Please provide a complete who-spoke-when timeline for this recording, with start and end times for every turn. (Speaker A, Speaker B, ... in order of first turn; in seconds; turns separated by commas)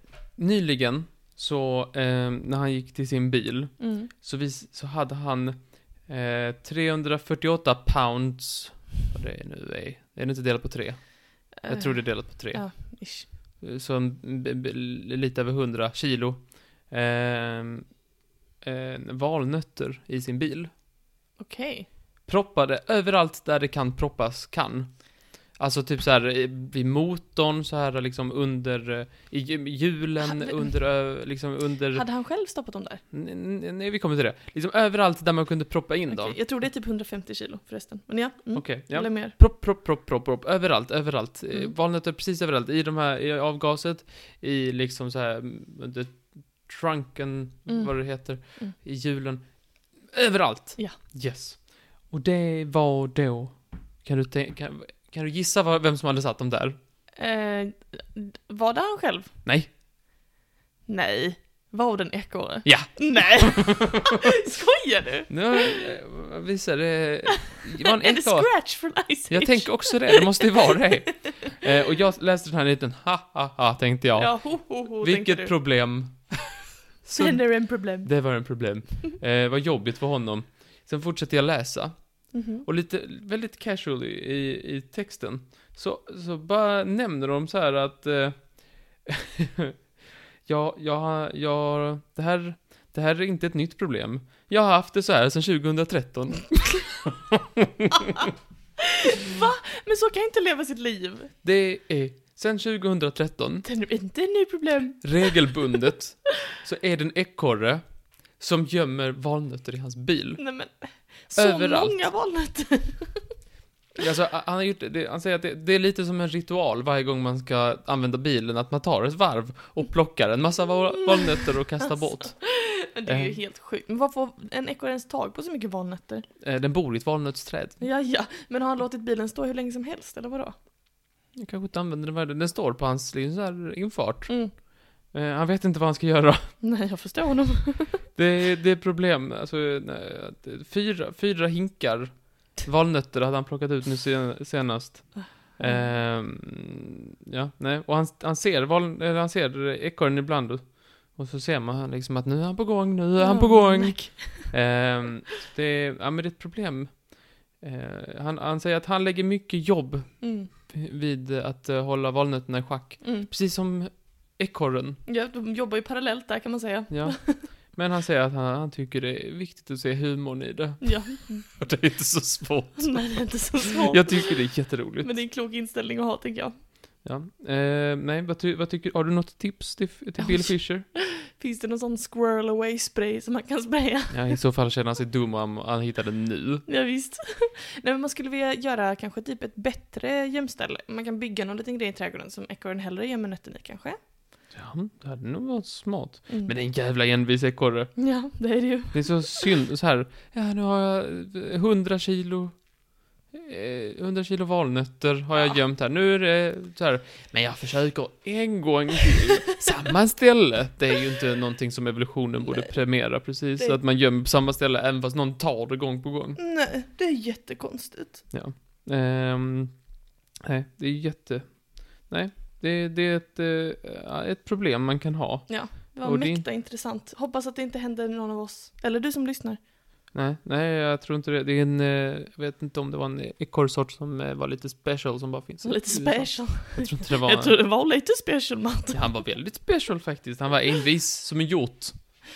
Speaker A: 0.4-17.9, Speaker B: 3.8-4.1, Speaker B: 11.6-13.3, Speaker A: 18.6-20.7, Speaker B: 21.4-21.9, Speaker A: 22.2-32.1, Speaker B: 30.2-30.7, Speaker B: 31.9-33.0, Speaker A: 33.1-36.4, Speaker B: 36.1-39.3, Speaker A: 38.5-56.8, Speaker B: 47.7-48.7, Speaker B: 57.2-59.3, Speaker B: 60.9-65.8, Speaker A: 62.6-63.9, Speaker A: 65.3-68.7, Speaker B: 67.3-70.5, Speaker A: 69.3-89.7, Speaker B: 74.2-75.5, Speaker B: 77.1-78.3, Speaker B: 82.3-82.6, Speaker A: 90.5-98.3, Speaker B: 99.0-101.3, Speaker A: 101.4-103.7, Speaker B: 103.6-105.5, Speaker A: 105.0-110.4, Speaker B: 110.4-113.3, Speaker A: 111.3-112.0, Speaker A: 114.0-122.4, Speaker B: 121.9-126.2, Speaker A: 123.0-123.4, Speaker A: 126.4-127.8, Speaker B: 127.8-130.6, Speaker A: 131.3-136.6, Speaker B: 134.3-134.5, Speaker B: 136.6-138.1, Speaker A: 138.1-165.0, Speaker B: 145.4-146.0, Speaker B: 153.2-154.5, Speaker B: 160.2-160.5, Speaker B: 163.0-163.3, Speaker B: 165.1-167.5, Speaker A: 166.9-175.2, Speaker B: 170.8-171.4, Speaker B: 172.8-176.6, Speaker A: 177.0-180.8, Speaker B: 180.2-184.4, Speaker A: 184.1-186.7, Speaker B: 186.7-194.0, Speaker A: 194.5-198.1, Speaker B: 196.3-196.5, Speaker B: 198.0-199.5, Speaker A: 198.9-202.6, Speaker A: 203.3-216.4, Speaker B: 216.3-218.2, Speaker A: 218.3-219.9, Speaker A: 220.4-226.5, Speaker B: 225.5-229.6, Speaker A: 230.1-237.6, Speaker B: 235.6-239.0, Speaker A: 238.9-242.0